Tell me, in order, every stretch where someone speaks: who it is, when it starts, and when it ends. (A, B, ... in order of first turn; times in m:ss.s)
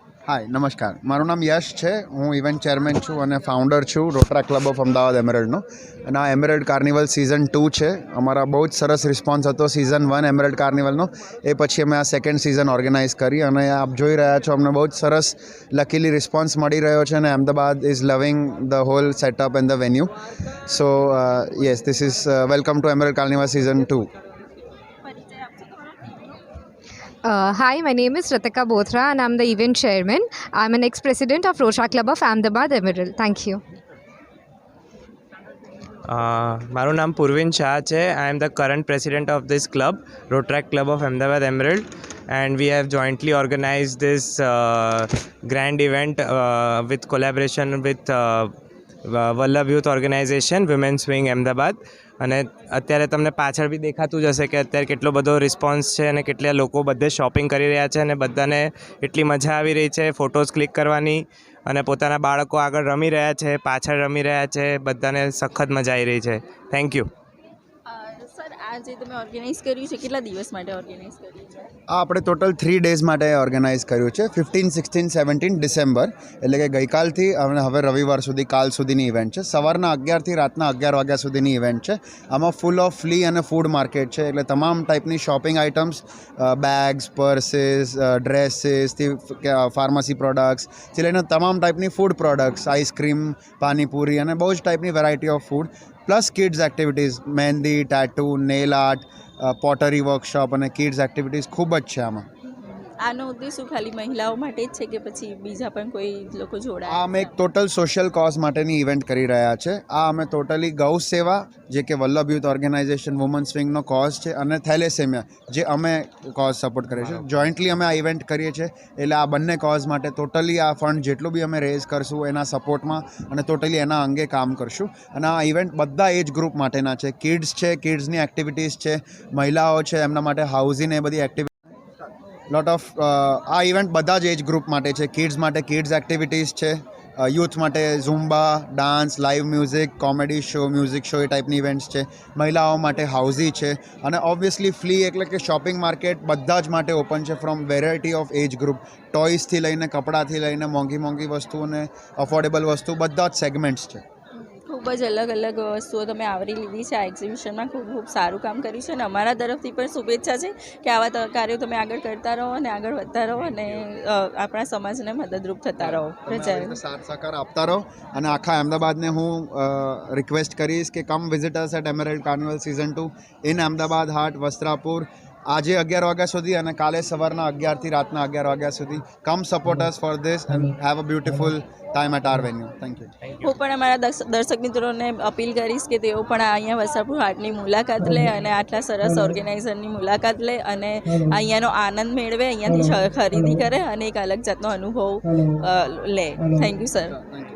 0:00.2-0:20.1 A
0:20.6-0:24.1 A
0:25.0-0:26.4 B
0:27.2-0:33.6 C
0:36.1-0:48.5 D
0:49.0-1:07.1 D
1:07.9-1:11.7 B
1:11.9-1:42.3 A
1:42.5-1:47.3 B
1:46.9-2:11.5 A
2:12.5-2:34.0 A
2:34.4-2:46.8 B
2:45.8-3:03.1 A
3:03.4-3:17.2 B